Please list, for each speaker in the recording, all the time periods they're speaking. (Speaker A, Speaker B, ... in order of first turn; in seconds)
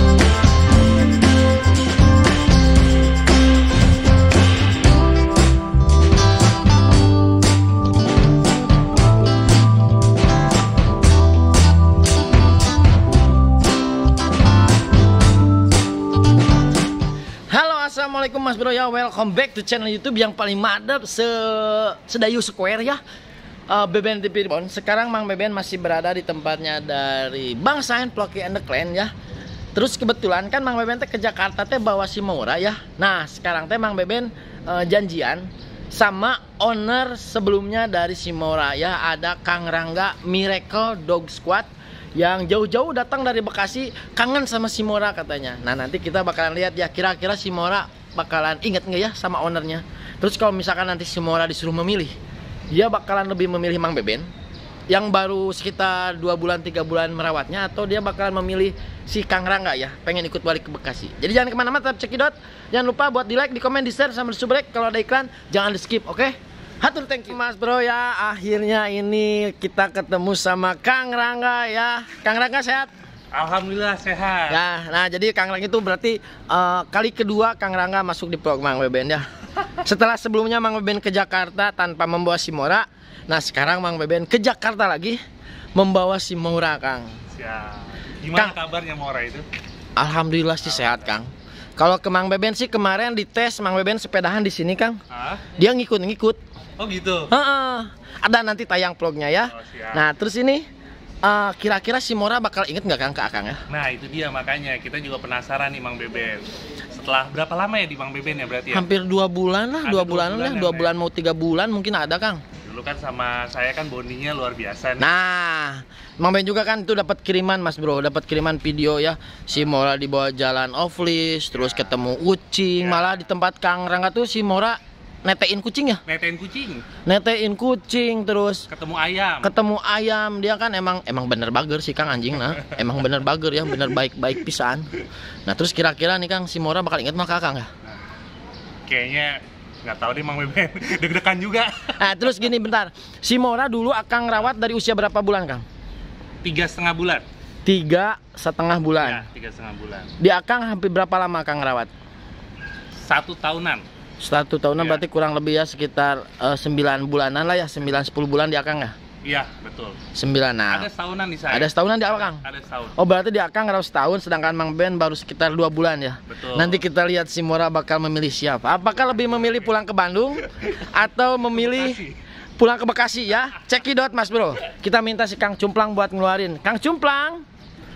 Speaker A: 17.5-23.0, 23.7-29.1, 29.8-52.2, 52.7-54.3, 54.9-72.9, 74.5-85.2, 85.8-87.1, 90.0-96.4, 97.3-100.7, 101.2-103.6, 108.7-112.4, 115.0-126.0, 127.1-128.7, 129.4-134.9, 135.5-137.7, 142.0-145.7, 147.7-149.3, 150.2-151.9, 154.2-158.9, 160.2-160.9, 161.5-162.4, 163.0-172.1, 172.6-177.4
Speaker B: 73.3-74.6, 87.3-89.5, 90.7-91.1, 95.1-95.5, 96.8-97.3, 99.5-100.0, 103.7-108.9, 109.8-111.0, 112.6-115.1, 121.5-122.0, 122.8-123.2, 126.1-126.9, 128.7-129.5, 138.9-142.3, 146.4-147.2, 149.0-150.1, 153.1-153.8, 154.8-155.0, 159.2-160.0, 160.7-163.0, 166.3-166.8, 169.4-169.7, 171.6-172.2